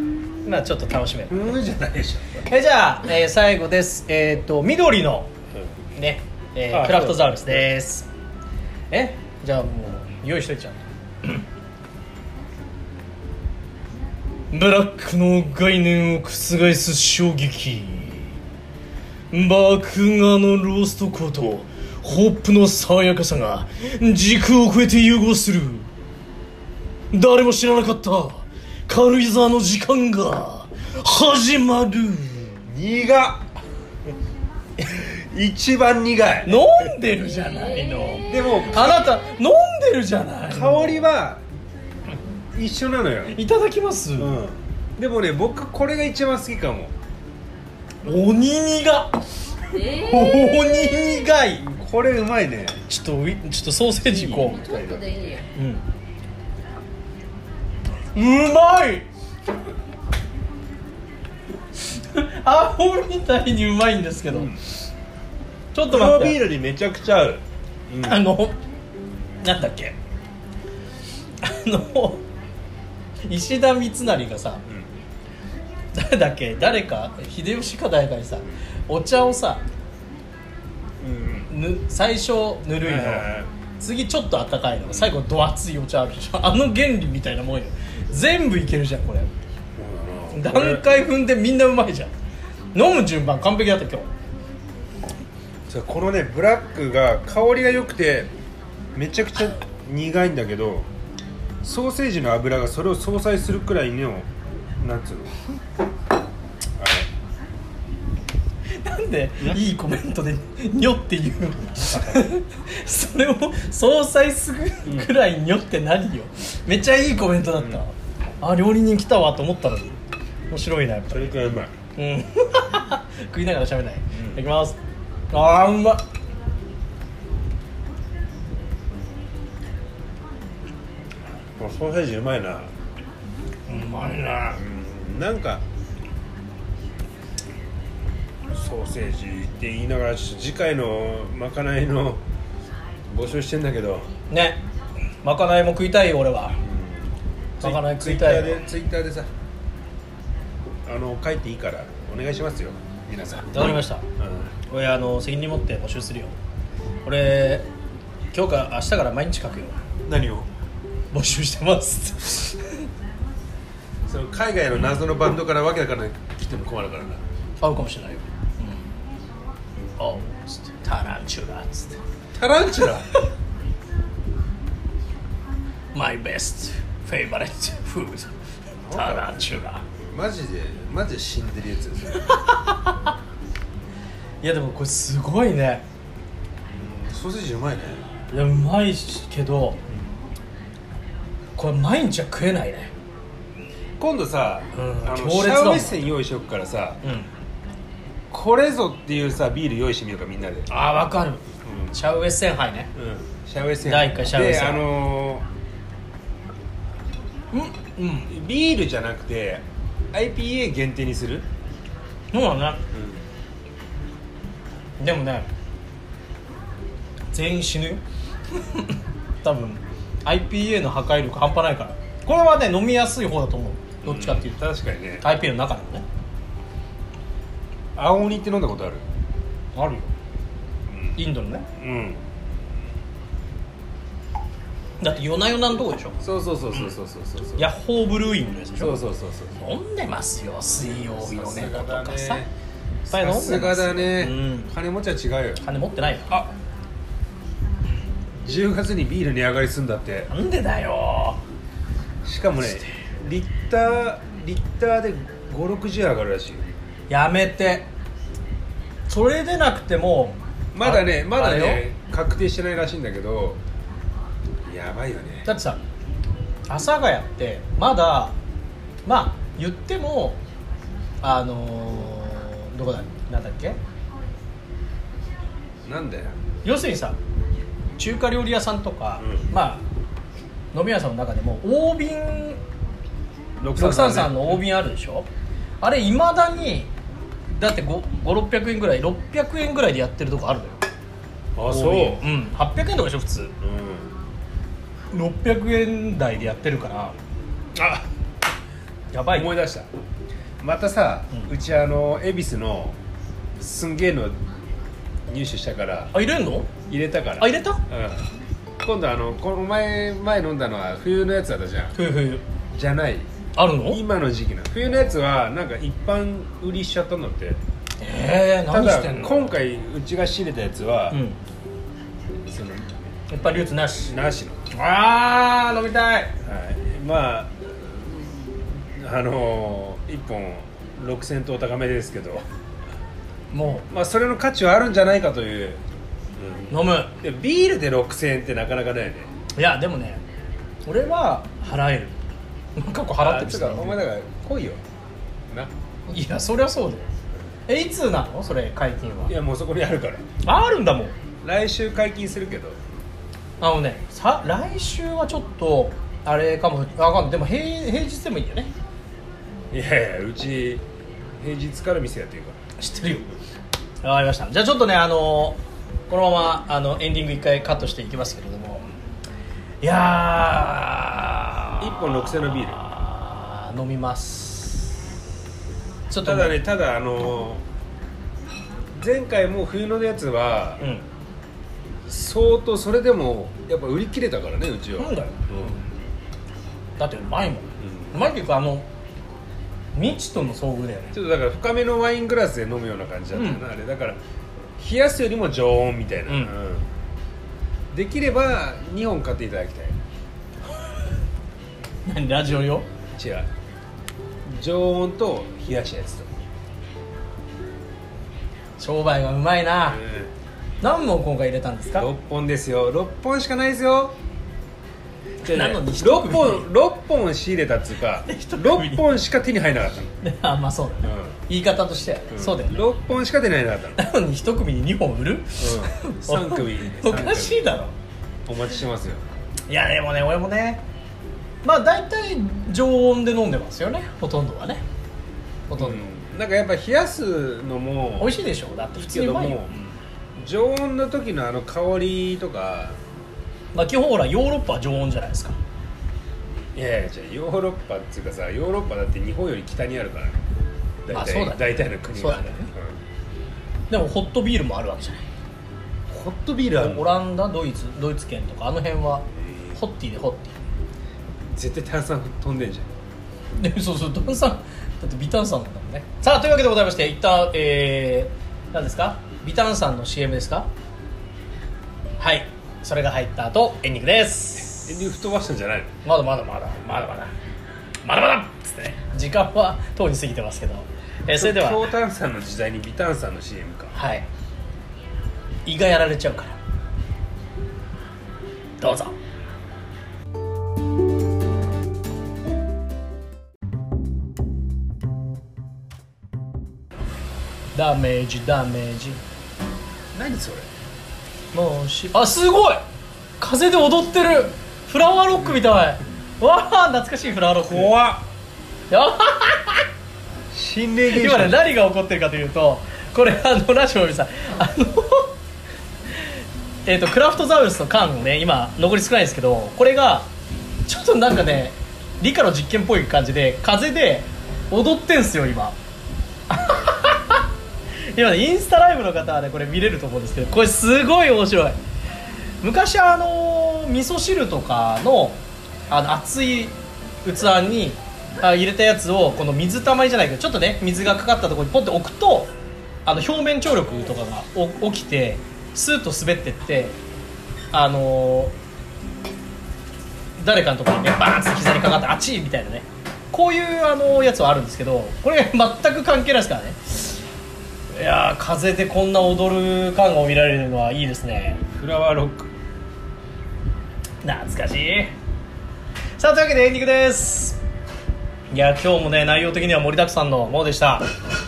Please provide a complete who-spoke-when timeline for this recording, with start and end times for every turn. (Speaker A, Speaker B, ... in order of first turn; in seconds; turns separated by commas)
Speaker A: 0.4-1.6, Speaker B: 1.3-2.4, Speaker A: 2.5-5.3, Speaker A: 6.0-8.1, Speaker B: 6.7-7.7, Speaker A: 8.9-11.4, Speaker A: 14.5-18.3, Speaker A: 19.3-25.9, Speaker A: 27.1-32.6, Speaker B: 32.6-33.5, Speaker B: 34.8-36.9, Speaker A: 36.4-41.0, Speaker C: 37.2-38.7, Speaker B: 38.2-39.0, Speaker B: 40.5-41.4, Speaker B: 42.5-43.4, Speaker A: 43.3-44.4, Speaker B: 44.2-46.9, Speaker A: 48.0-51.6, Speaker C: 49.7-51.4, Speaker B: 51.6-52.8, Speaker A: 52.9-54.6, Speaker B: 54.0-55.3, Speaker C: 54.2-55.5, Speaker A: 55.5-55.8, Speaker A: 58.1-59.1, Speaker A: 61.9-64.5, Speaker B: 64.3-64.6, Speaker A: 65.7-66.4, Speaker B: 65.9-68.2, Speaker A: 68.0-68.6, Speaker A: 69.4-70.0, Speaker A: 71.4-72.2, Speaker A: 73.3-74.6, Speaker A: 75.9-79.6, Speaker B: 81.0-81.5, Speaker A: 81.5-89.3, Speaker B: 82.8-83.5, Speaker B: 84.8-85.2, Speaker B: 89.8-90.9, Speaker A: 90.3-92.1, Speaker A: 92.7-94.1, Speaker B: 95.7-98.3, Speaker B: 98.9-100.9, Speaker B: 101.6-105.3, Speaker B: 106.8-107.1, Speaker A: 108.7-119.9, Speaker B: 111.8-112.2, Speaker B: 114.8-115.1, Speaker A: 120.5-121.4, Speaker B: 121.1-121.7, Speaker A: 122.0-124.8, Speaker B: 124.1-124.4, Speaker A: 125.3-126.0, Speaker B: 131.5-132.7, Speaker A: 133.7-134.6, Speaker B: 134.5-135.6, Speaker B: 138.5-142.2, Speaker B: 143.1-144.1, Speaker A: 144.3-144.6, Speaker A: 145.2-146.6, Speaker B: 146.6-149.3, Speaker A: 147.6-148.6, Speaker B: 150.8-154.5, Speaker A: 153.5-154.0, Speaker A: 154.7-156.3, Speaker A: 157.0-157.7, Speaker A: 158.3-159.8, Speaker B: 160.0-160.5, Speaker A: 161.1-162.8, Speaker B: 164.1-167.2, Speaker A: 167.6-168.8, Speaker A: 170.0-172.0, Speaker B: 172.3-173.1, Speaker A: 175.9-178.3, Speaker B: 178.8-179.5, Speaker A: 178.9-179.8, Speaker B: 180.1-182.2, Speaker A: 182.2-183.1, Speaker A: 184.4-185.8, Speaker B: 186.7-188.0, Speaker A: 188.3-189.8, Speaker A: 191.6-192.9, Speaker B: 194.0-197.0, Speaker A: 194.7-196.1, Speaker A: 197.0-197.3, Speaker B: 198.3-200.7, Speaker A: 200.7-202.9, Speaker B: 201.6-201.9, Speaker B: 202.9-205.4, Speaker A: 203.8-204.8, Speaker A: 207.5-208.3, Speaker B: 208.3-211.5, Speaker A: 212.3-212.8, Speaker B: 212.9-213.2, Speaker A: 215.0-215.5, Speaker A: 217.3-218.0, Speaker A: 218.6-224.6, Speaker B: 224.0-225.3, Speaker A: 225.2-226.0, Speaker B: 227.9-229.1, Speaker A: 229.7-230.1, Speaker B: 230.9-231.2, Speaker A: 231.2-231.7, Speaker B: 231.8-232.2, Speaker A: 235.0-236.2, Speaker B: 236.2-237.7, Speaker A: 237.6-239.0, Speaker B: 238.8-239.7, Speaker A: 239.6-242.4, Speaker B: 241.2-242.5, Speaker B: 243.1-245.6, Speaker A: 243.1-244.7, Speaker A: 245.6-246.4, Speaker B: 248.4-250.3, Speaker A: 250.3-251.4, Speaker B: 252.2-256.7, Speaker A: 257.1-257.9, Speaker A: 259.1-261.8, Speaker B: 260.7-263.6, Speaker B: 264.6-265.5, Speaker A: 265.4-265.8, Speaker A: 266.7-268.3, Speaker A: 269.1-270.4, Speaker A: 271.2-273.8, Speaker B: 275.8-276.4, Speaker A: 276.6-277.2, Speaker A: 278.0-279.8, Speaker B: 279.2-279.5, Speaker A: 280.7-282.6, Speaker B: 283.6-284.6, Speaker A: 283.7-285.3, Speaker A: 285.8-286.9, Speaker A: 287.5-290.8, Speaker B: 291.6-292.2, Speaker A: 291.7-293.5, Speaker B: 293.6-294.1, Speaker A: 295.1-297.1, Speaker B: 297.7-298.1, Speaker A: 299.1-299.5, Speaker B: 299.3-299.9, Speaker B: 300.6-303.0, Speaker B: 303.6-304.4, Speaker B: 305.3-306.1, Speaker A: 306.1-306.7, Speaker B: 306.9-308.3, Speaker A: 307.4-307.8, Speaker B: 308.8-311.9, Speaker A: 311.9-312.4, Speaker B: 312.7-313.3, Speaker A: 313.6-314.0, Speaker B: 313.9-317.6, Speaker A: 318.0-319.5, Speaker B: 318.7-321.2, Speaker A: 321.1-321.4, Speaker B: 322.4-324.6, Speaker A: 323.3-324.1, Speaker A: 324.7-326.4, Speaker B: 326.4-332.4, Speaker A: 333.5-333.9, Speaker B: 333.9-335.8, Speaker B: 336.4-339.3, Speaker A: 336.7-337.1, Speaker A: 339.6-340.2, Speaker A: 340.9-342.1, Speaker A: 342.8-344.0, Speaker B: 343.2-344.8, Speaker A: 346.1-347.1, Speaker A: 347.7-349.3, Speaker B: 349.3-350.2, Speaker A: 350.4-351.1, Speaker B: 351.4-352.8, Speaker A: 353.6-358.7, Speaker B: 359.7-360.8, Speaker B: 361.4-362.6, Speaker A: 362.8-363.3, Speaker A: 364.0-368.8, Speaker A: 369.8-375.0, Speaker B: 371.8-372.8, Speaker A: 376.1-376.6, Speaker B: 376.2-377.6, Speaker B: 378.9-380.8, Speaker A: 380.8-381.0, Speaker B: 382.0-385.8, Speaker A: 385.0-385.8, Speaker A: 387.0-388.9, Speaker B: 387.8-388.2, Speaker A: 389.9-391.1, Speaker B: 391.1-394.2, Speaker A: 393.3-393.6, Speaker B: 394.8-396.9, Speaker A: 396.3-396.5, Speaker B: 397.9-400.0, Speaker A: 402.0-402.9, Speaker B: 403.1-403.5, Speaker B: 404.5-406.3, Speaker A: 408.8-410.0, Speaker B: 409.9-410.3, Speaker A: 410.8-412.1, Speaker B: 411.9-414.1, Speaker A: 415.4-416.7, Speaker B: 415.4-420.1, Speaker A: 418.3-419.1, Speaker A: 420.2-422.8, Speaker B: 421.0-421.4, Speaker B: 422.3-424.0, Speaker A: 423.9-427.9, Speaker B: 425.6-427.8, Speaker B: 428.4-429.3, Speaker A: 429.7-430.8, Speaker A: 431.6-434.8, Speaker A: 435.7-436.1, Speaker B: 435.8-438.4, Speaker A: 438.2-439.6, Speaker B: 438.9-443.0, Speaker A: 443.7-445.6, Speaker B: 446.7-450.4, Speaker B: 451.1-453.0, Speaker A: 451.1-452.7, Speaker A: 453.9-455.2, Speaker B: 456.1-457.1, Speaker A: 456.8-460.5, Speaker B: 461.5-462.9, Speaker A: 463.6-470.7, Speaker A: 472.2-475.0, Speaker B: 474.8-475.9, Speaker A: 476.0-477.3, Speaker A: 478.0-481.9, Speaker B: 481.3-483.9, Speaker A: 483.9-484.2, Speaker A: 485.6-486.6, Speaker A: 488.8-489.1, Speaker A: 497.7-499.2, Speaker B: 500.1-500.7, Speaker A: 501.5-502.8, Speaker A: 503.4-507.9, Speaker B: 507.6-508.3, Speaker A: 508.9-509.8, Speaker B: 510.5-511.6, Speaker A: 511.1-515.3, Speaker A: 516.9-520.3, Speaker A: 520.9-525.8, Speaker A: 526.5-527.5, Speaker A: 528.1-531.8, Speaker A: 532.6-542.5, Speaker A: 543.0-547.0, Speaker A: 547.7-548.5, Speaker A: 550.4-557.2, Speaker A: 557.9-561.6, Speaker B: 561.7-562.5, Speaker A: 564.2-565.1, Speaker A: 566.2-567.6, Speaker A: 568.5-571.1